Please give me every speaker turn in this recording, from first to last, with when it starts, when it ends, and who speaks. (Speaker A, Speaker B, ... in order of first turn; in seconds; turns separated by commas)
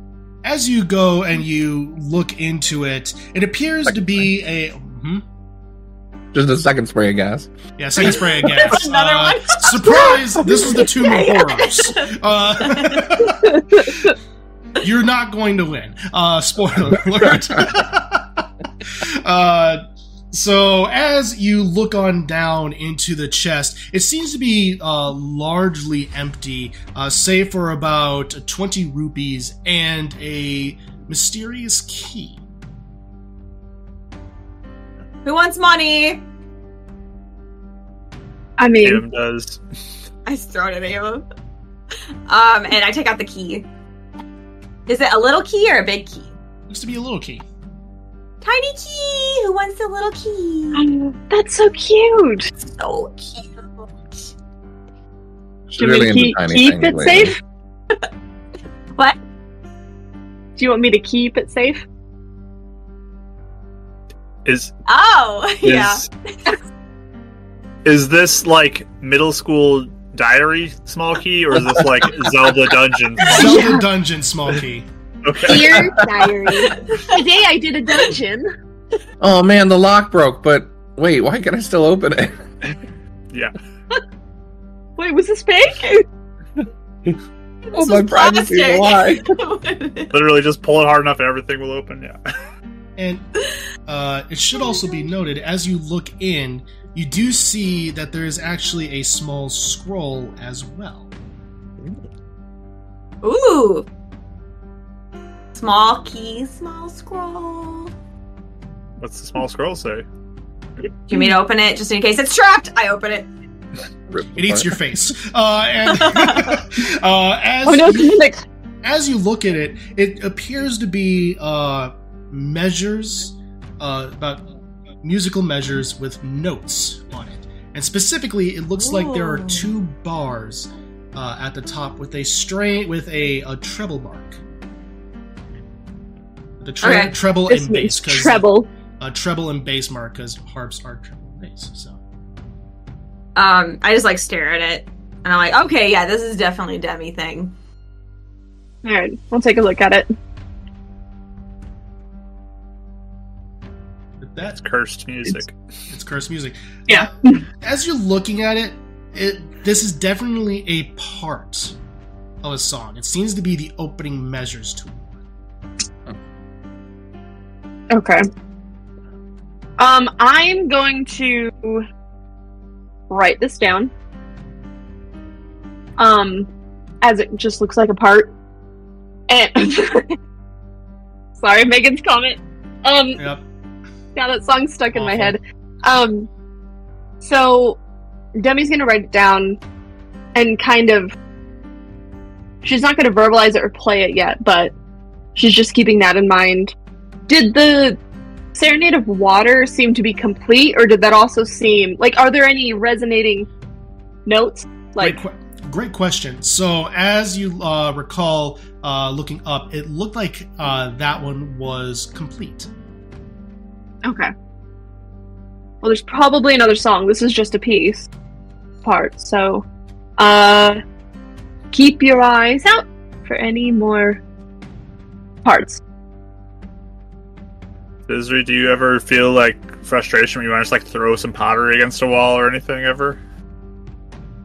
Speaker A: 0.4-5.2, Speaker B: 6.3-7.5, Speaker A: 7.8-14.1, Speaker C: 8.0-13.2, Speaker A: 14.8-32.4, Speaker C: 35.2-36.2, Speaker D: 38.6-39.0, Speaker E: 38.8-39.6, Speaker C: 40.2-41.2, Speaker C: 42.3-43.6, Speaker C: 44.9-46.3, Speaker A: 46.7-47.4, Speaker C: 48.4-50.9, Speaker D: 50.7-52.5, Speaker C: 52.6-54.3, Speaker B: 55.7-57.3, Speaker D: 55.8-57.4, Speaker D: 60.5-61.8, Speaker E: 64.4-64.7, Speaker C: 64.9-66.5, Speaker E: 65.6-66.1, Speaker E: 67.8-73.5, Speaker B: 71.8-72.2, Speaker D: 73.2-73.8, Speaker A: 73.2-74.9, Speaker E: 75.2-76.0, Speaker D: 75.4-78.5, Speaker C: 76.7-77.2, Speaker B: 79.2-82.4, Speaker D: 85.0-86.0, Speaker C: 87.7-90.1, Speaker B: 87.7-89.3, Speaker E: 90.1-92.2, Speaker A: 93.0-93.3, Speaker A: 93.8-101.1, Speaker C: 103.2-103.9, Speaker C: 105.5-107.9, Speaker E: 109.0-110.0, Speaker C: 111.1-113.3, Speaker B: 114.1-114.8, Speaker A: 114.3-118.2, Speaker C: 115.9-116.6, Speaker D: 117.7-118.4, Speaker A: 118.8-124.5, Speaker A: 125.0-134.4, Speaker C: 128.8-129.7, Speaker A: 136.6-138.4, Speaker C: 136.8-137.1, Speaker D: 137.5-138.7, Speaker A: 139.0-142.0, Speaker C: 143.3-147.5, Speaker D: 148.8-150.1, Speaker A: 154.2-154.6, Speaker E: 154.4-155.5, Speaker A: 155.9-161.8, Speaker D: 156.9-157.3, Speaker A: 162.4-165.2, Speaker D: 167.9-168.2, Speaker D: 169.8-171.8, Speaker D: 173.1-173.9, Speaker D: 176.0-176.5, Speaker D: 177.0-178.3, Speaker D: 179.3-180.1, Speaker D: 181.4-183.2, Speaker A: 183.2-183.4, Speaker D: 184.2-186.3, Speaker A: 184.9-185.4, Speaker D: 187.2-187.8, Speaker D: 188.3-189.6, Speaker D: 190.3-191.1, Speaker D: 192.6-194.7, Speaker D: 195.3-196.7, Speaker D: 197.3-198.0, Speaker D: 198.5-203.5, Speaker D: 204.2-205.2, Speaker A: 205.0-212.7, Speaker D: 214.0-214.3, Speaker D: 215.8-218.1, Speaker D: 218.8-219.6, Speaker D: 220.2-220.8, Speaker D: 221.7-224.2, Speaker D: 225.4-225.8, Speaker E: 228.1-233.2